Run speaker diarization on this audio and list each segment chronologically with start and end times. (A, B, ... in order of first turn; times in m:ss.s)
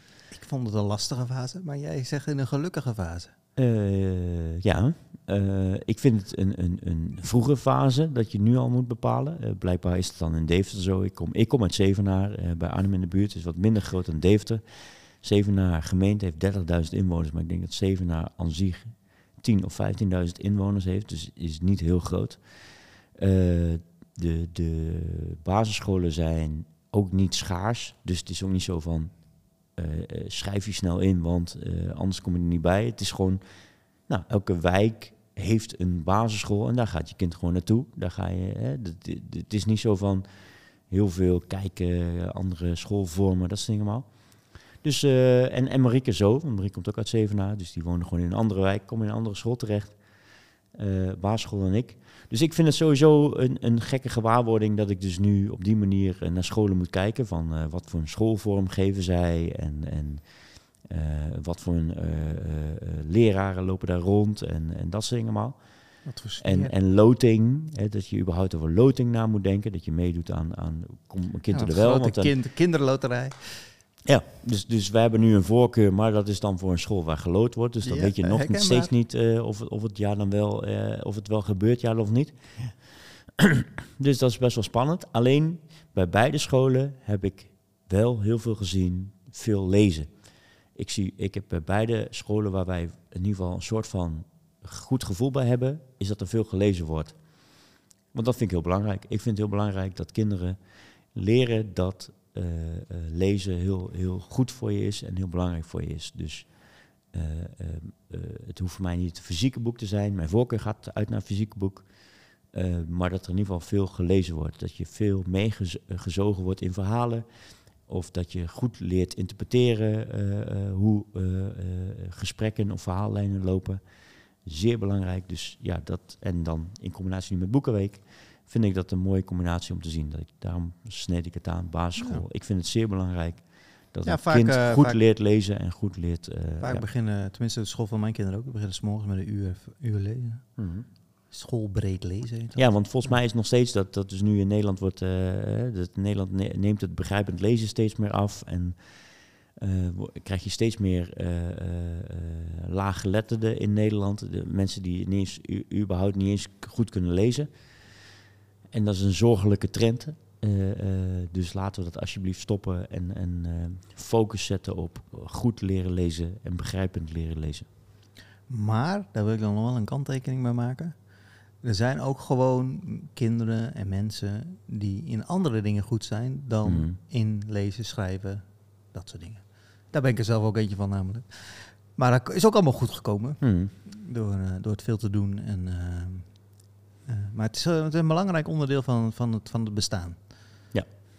0:00.3-0:03.3 A
0:03.6-1:12.3 B
1:06.0-1:06.7 A
1:11.5-1:13.8 A
1:14.0-2:16.8 B
1:17.8-1:18.9 A
2:12.0-2:12.2 A
2:14.0-2:15.0 A
2:16.6-2:23.2 A
2:20.6-2:20.9 B
2:22.5-2:38.0 B
2:38.7-2:47.7 B
2:48.5-3:10.7 A
2:56.6-2:57.0 B
3:03.4-3:03.7 B